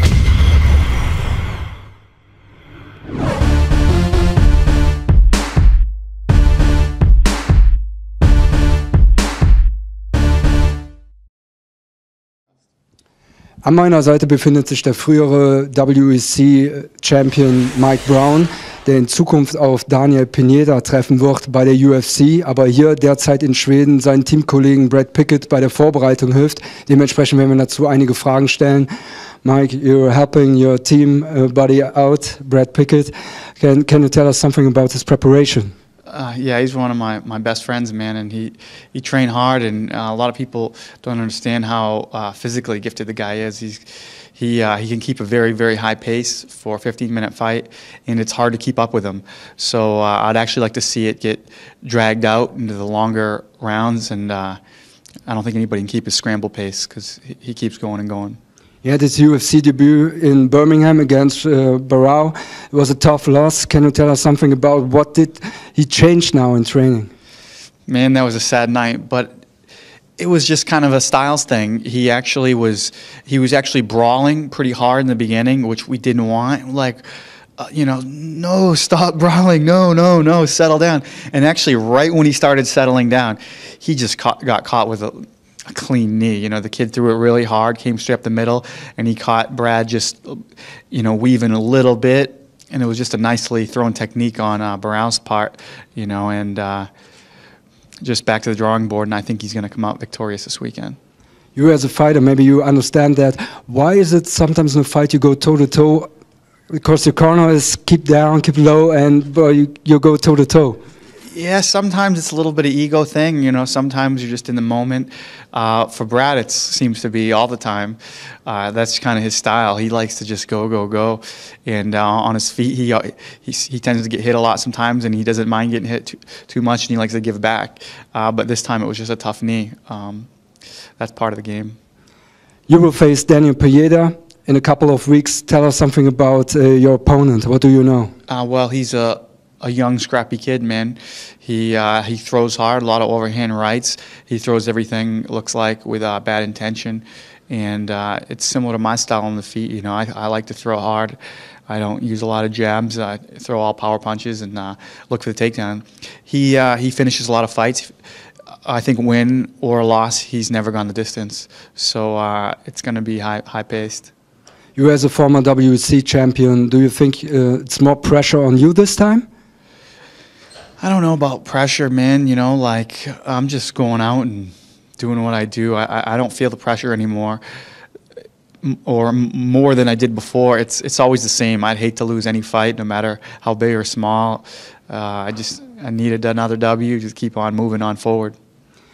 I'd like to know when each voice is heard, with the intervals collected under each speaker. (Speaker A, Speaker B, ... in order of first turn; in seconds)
Speaker A: 13.6-28.9, 29.4-35.7, 58.8-67.1, 101.5-106.1, 106.7-110.8, 132.7-138.1, 164.8-169.3
Speaker B: 36.1-54.6, 55.3-58.4, 67.9-69.4, 70.2-77.1, 77.6-96.9, 98.0-101.0, 111.3-130.3, 131.0-131.8, 138.3-157.9, 158.7-164.1, 170.8-177.4, 178.6-188.4